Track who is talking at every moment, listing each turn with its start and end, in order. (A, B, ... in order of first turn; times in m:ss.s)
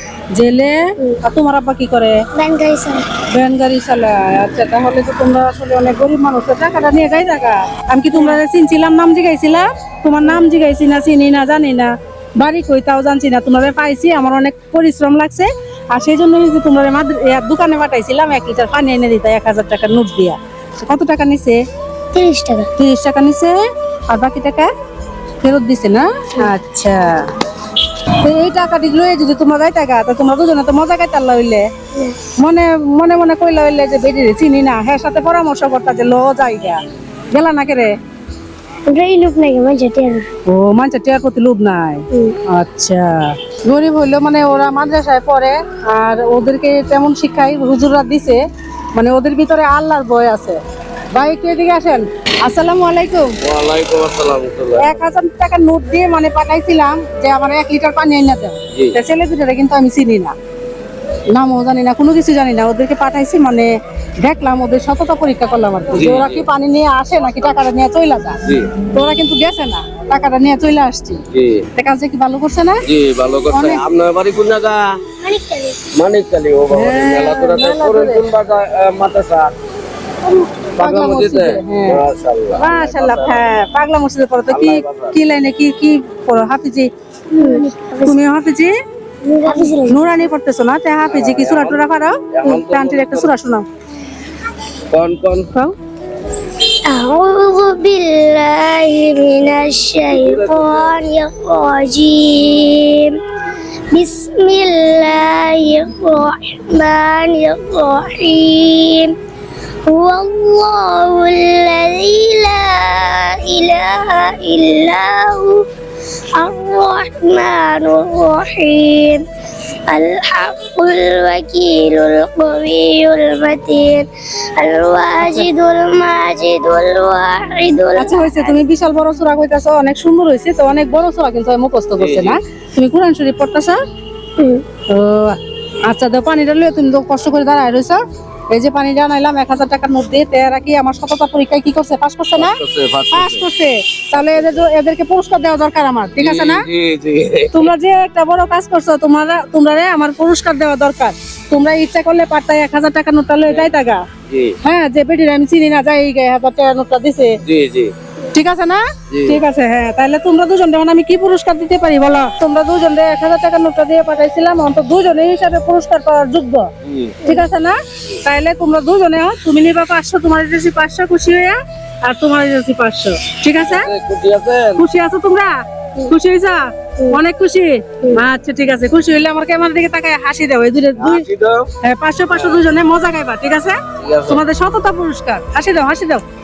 0:00.3-0:02.2 A
0:02.3-0:03.1 B
0:03.3-0:21.6 A
0:08.1-0:08.4 B
0:22.1-0:22.7 B
0:22.8-0:24.7 A
0:25.4-0:27.3 A
0:28.2-0:31.7 A
0:32.4-0:36.8 A
0:37.3-0:37.9 A
0:38.9-0:40.3 B
0:40.5-0:48.4 A
0:42.1-0:42.4 B
0:48.9-0:50.6 A
0:51.1-0:53.3 A
0:53.4-0:54.9 C
0:54.8-1:00.3 A
1:01.3-1:08.4 A
1:05.9-1:06.4 C
1:08.9-1:11.2 A
1:11.3-1:11.6 C
1:11.7-1:12.8 A
1:12.9-1:15.0 C
1:13.5-1:13.8 A
1:15.2-1:15.8 B
1:15.9-1:19.5 C
1:16.7-1:18.2 A
1:20.8-1:23.6 C
1:20.8-1:26.9 A
1:24.5-1:25.2 C
1:27.3-1:28.2 B
1:27.5-1:28.7 A
1:29.2-1:30.2 B
1:29.5-1:33.6 A
1:31.1-1:31.8 C
1:32.3-1:33.3 C
1:34.9-1:35.5 C
1:36.8-1:43.2 B
1:40.0-1:41.0 C
1:43.9-1:49.1 B
1:49.8-1:55.7 B
1:56.3-1:59.2 B
1:59.9-2:08.6 B
2:05.2-2:05.5 A
2:08.0-2:13.8 A
2:12.0-2:12.4 C
2:14.4-2:14.6 B
2:14.9-2:18.0 A
2:18.5-2:22.6 A
2:22.4-2:23.5 C
2:23.1-2:26.6 A
2:24.2-2:24.6 C
2:26.2-2:27.7 C
2:27.5-2:34.0 A
2:33.5-2:33.7 C
2:34.3-2:34.6 C
2:34.6-2:37.4 A
2:37.4-2:37.9 C
2:38.3-2:46.7 A
2:39.1-2:39.4 C
2:46.8-2:47.2 C
2:47.2-2:53.9 A
2:53.6-2:54.8 C
2:54.8-2:55.5 A
2:56.1-3:01.2 A
3:01.0-3:01.7 C
3:01.8-3:06.2 A
3:02.3-3:02.6 C
3:04.0-3:04.4 C